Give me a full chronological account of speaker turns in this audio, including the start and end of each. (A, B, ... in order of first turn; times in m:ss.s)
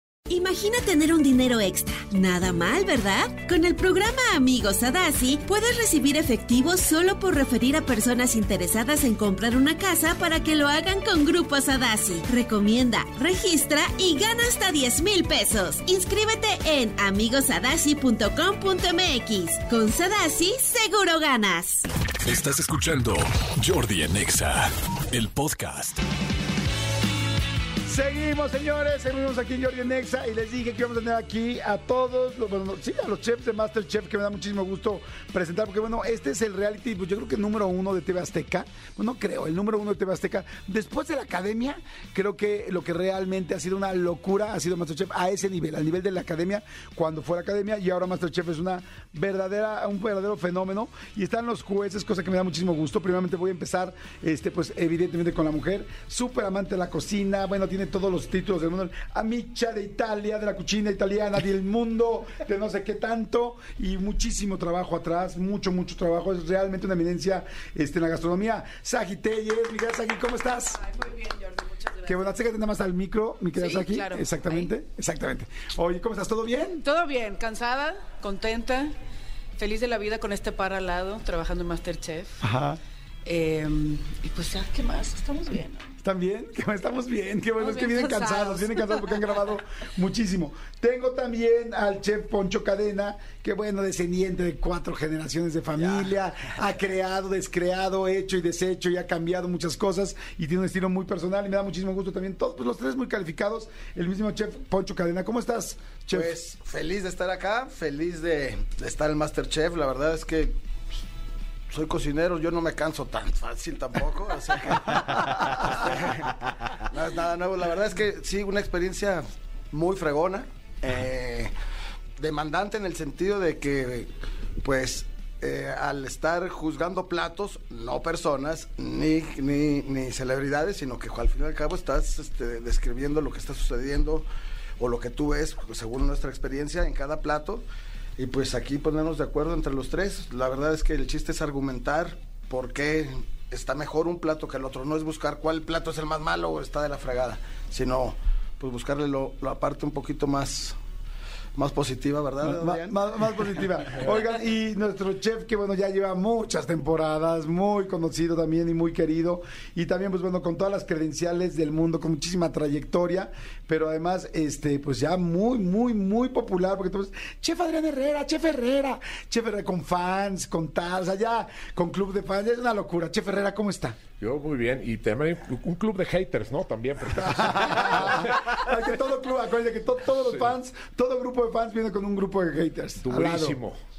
0:00.3-0:21.8 A
0:22.2-0:26.0 B
0:27.8-1:10.8 C
1:10.7-1:12.3 D
1:12.0-1:16.8 C
1:13.6-1:14.7 D
1:16.8-1:18.9 D
1:19.6-1:22.4 D
1:22.4-1:22.8 C
1:23.2-1:25.9 D
1:26.0-1:46.4 C
1:27.6-1:29.2 D
1:46.1-1:50.5 E
1:51.7-2:01.5 E
1:55.3-1:55.6 C
2:02.2-2:04.1 E
2:04.6-2:14.2 E
2:14.8-2:17.6 E
2:18.2-2:30.8 E
2:31.6-2:32.9 E
2:32.4-2:54.0 C
2:54.2-2:58.6 F
2:57.1-3:03.6 C
3:03.0-3:03.8 F